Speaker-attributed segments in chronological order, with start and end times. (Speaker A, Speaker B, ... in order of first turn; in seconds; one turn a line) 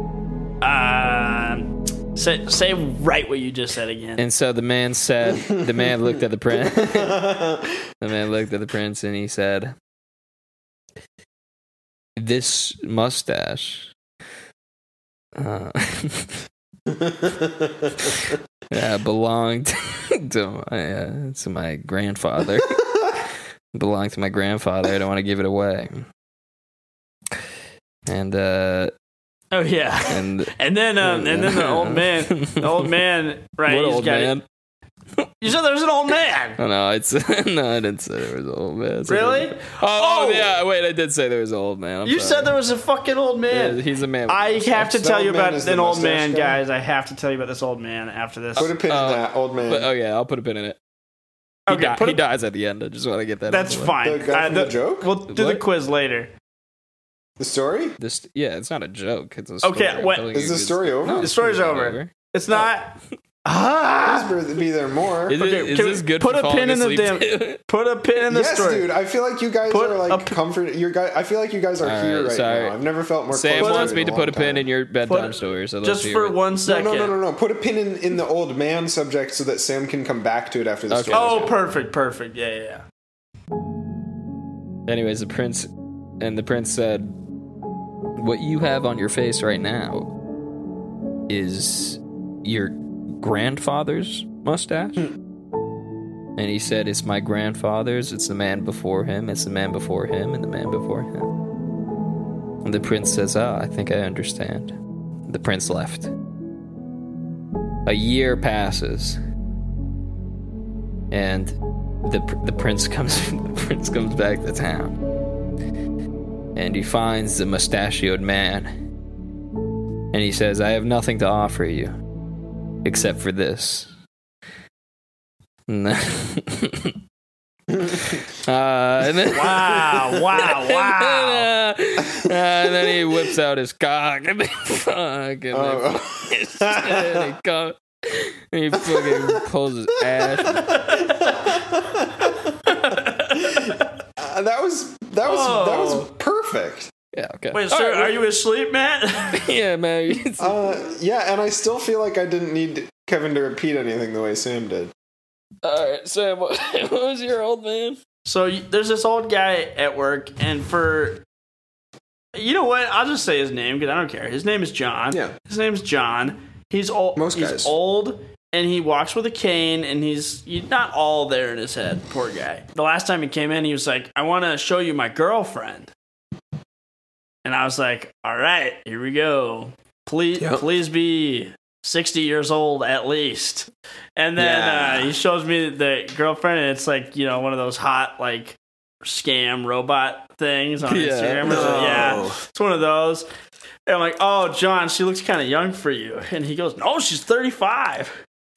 Speaker A: 0.6-4.2
Speaker B: 4.2-7.3
Speaker C: 6.6-7.8
Speaker B: 8.0-9.8
Speaker B: 12.2-13.9
Speaker B: 15.4-16.4
Speaker C: 16.9-17.9
Speaker B: 18.1-22.8
Speaker B: 23.7-26.1
Speaker B: 28.1-28.9
Speaker A: 29.5-34.4
Speaker B: 30.1-32.9
Speaker B: 33.7-34.4
Speaker A: 35.4-36.6
Speaker B: 36.6-42.6
Speaker A: 39.1-40.6
Speaker A: 42.0-48.7
Speaker B: 43.5-44.9
Speaker C: 44.9-46.6
Speaker B: 48.6-50.8
Speaker C: 48.6-49.9
Speaker A: 51.7-52.2
Speaker B: 51.7-54.0
Speaker A: 53.5-56.3
Speaker C: 54.0-55.1
Speaker B: 55.3-55.6
Speaker C: 57.4-58.0
Speaker B: 58.0-62.7
Speaker A: 59.6-60.3
Speaker C: 60.3-61.3
Speaker A: 61.1-64.3
Speaker C: 64.0-65.4
Speaker B: 65.3-67.6
Speaker A: 65.3-68.9
Speaker C: 68.3-74.7
Speaker A: 69.7-70.4
Speaker B: 71.8-72.8
Speaker B: 73.3-76.4
Speaker A: 73.6-74.0
Speaker A: 75.1-77.2
Speaker C: 76.7-81.6
Speaker B: 80.9-81.5
Speaker A: 81.1-82.8
Speaker B: 84.9-87.2
Speaker B: 88.2-90.1
Speaker B: 91.3-95.1
Speaker B: 96.4-101.3
Speaker B: 102.6-104.8
Speaker B: 105.3-106.1
Speaker B: 107.9-109.2
Speaker B: 111.1-115.0
Speaker B: 116.6-118.8
Speaker B: 120.1-122.0
Speaker B: 122.8-123.9
Speaker B: 125.7-127.0
Speaker C: 127.7-128.2
Speaker B: 128.1-140.8
Speaker A: 129.3-131.5
Speaker C: 135.5-137.3
Speaker C: 138.7-139.4
Speaker C: 140.4-142.5
Speaker A: 140.7-141.4
Speaker A: 142.7-143.9
Speaker C: 143.3-146.9
Speaker A: 145.2-146.1
Speaker B: 147.1-148.2
Speaker A: 147.5-149.5
Speaker B: 149.3-150.6
Speaker C: 150.4-154.9
Speaker B: 155.6-158.0
Speaker A: 158.2-161.2
Speaker A: 162.3-175.9
Speaker C: 167.2-167.7
Speaker A: 177.4-193.3
Speaker C: 180.4-180.7
Speaker C: 184.4-185.2
Speaker B: 190.9-192.1
Speaker C: 191.4-192.4
Speaker A: 193.9-198.2